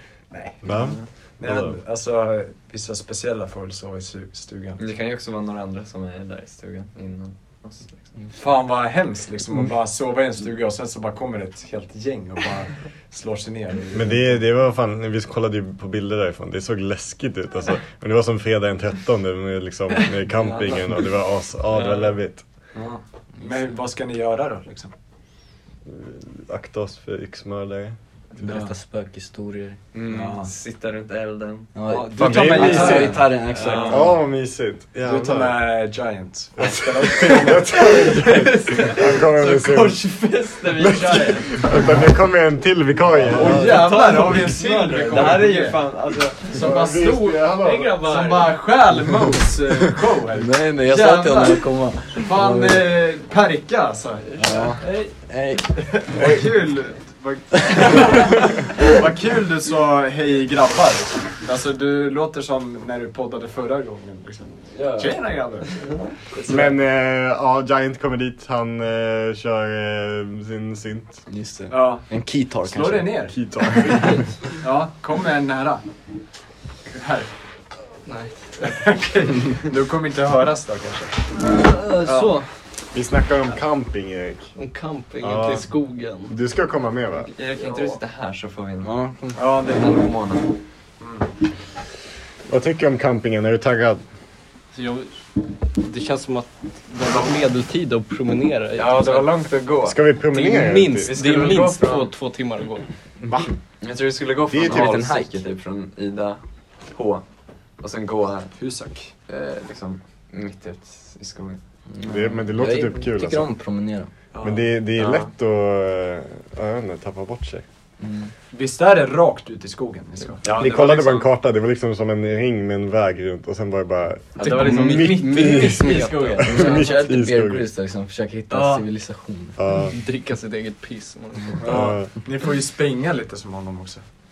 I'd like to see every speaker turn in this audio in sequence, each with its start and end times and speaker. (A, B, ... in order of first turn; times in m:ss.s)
0:00.3-0:00.8 A
0:00.6-0:01.8 B
0:00.7-0:01.1 C
0:01.4-0:04.8 A
0:04.8-0:08.1 C
0:08.3-0:14.4 A
0:13.9-0:22.4 B
0:20.5-0:20.8 A
0:22.7-0:24.9 A
0:25.9-0:28.0 B
0:28.4-0:29.8 D
0:28.4-0:28.7 A
0:29.9-0:31.7 C
0:30.1-0:30.5 A
0:31.8-0:34.1 D
0:31.8-0:33.9 A
0:32.2-0:33.2 B
0:32.7-0:34.1 C
0:33.9-0:35.6 B
0:35.0-0:38.3 A
0:36.6-0:40.1 B
0:38.3-0:40.4 E
0:39.8-0:41.6 C
0:40.7-0:43.9 B
0:43.3-0:45.8 A
0:43.3-0:46.6 C
0:43.7-0:45.7 E
0:46.5-0:48.0 B
0:46.5-0:47.2 A
0:46.9-0:48.6 E
0:48.0-0:54.8 A
0:50.4-0:52.9 D
0:54.6-0:55.2 E
0:55.3-0:56.4 D
0:55.8-1:05.7 A
1:04.8-1:05.1 D
1:06.4-1:06.7 A
1:06.5-1:11.2 B
1:11.3-1:13.2 D
1:11.7-1:12.1 A
1:12.6-1:13.4 A
1:13.3-1:14.2 B
1:14.6-1:15.8 A
1:16.9-1:17.3 A
1:18.1-1:18.5 E
1:18.6-1:21.3 A
1:21.5-1:22.5 E
1:22.1-1:22.4 A
1:22.9-1:24.5 B
1:24.6-1:26.4 E
1:25.2-1:25.7 B
1:26.3-1:27.3 B
1:27.3-1:28.9 C
1:28.8-1:29.4 D
1:29.4-1:30.0 A
1:29.6-1:30.5 C
1:31.0-1:31.3 A
1:32.5-1:34.0 B
1:34.7-1:35.1 E
1:35.7-1:39.4 E
1:38.8-1:40.0 C
1:39.8-1:41.1 B
1:40.3-1:42.9 E
1:41.1-1:42.1 C
1:43.8-1:47.2 C
1:44.5-1:45.0 B
1:44.7-1:45.4 D
1:47.8-1:48.5 C
1:48.6-1:49.1 A
1:49.3-1:51.6 C
1:51.9-1:54.1 D
1:52.0-1:53.5 B
1:54.3-1:54.6 A
1:54.4-1:57.6 B
1:55.0-1:55.3 C
1:58.0-1:58.3 D
1:58.5-2:00.7 A
2:00.4-2:00.8 C
2:00.4-2:07.7 B
2:04.4-2:07.0 E
2:04.4-2:06.5 C
2:06.4-2:09.6 D
2:08.5-2:08.8 E
2:09.6-2:10.0 B
2:09.7-2:11.6 E
2:11.6-2:14.0 A
2:11.6-2:12.1 B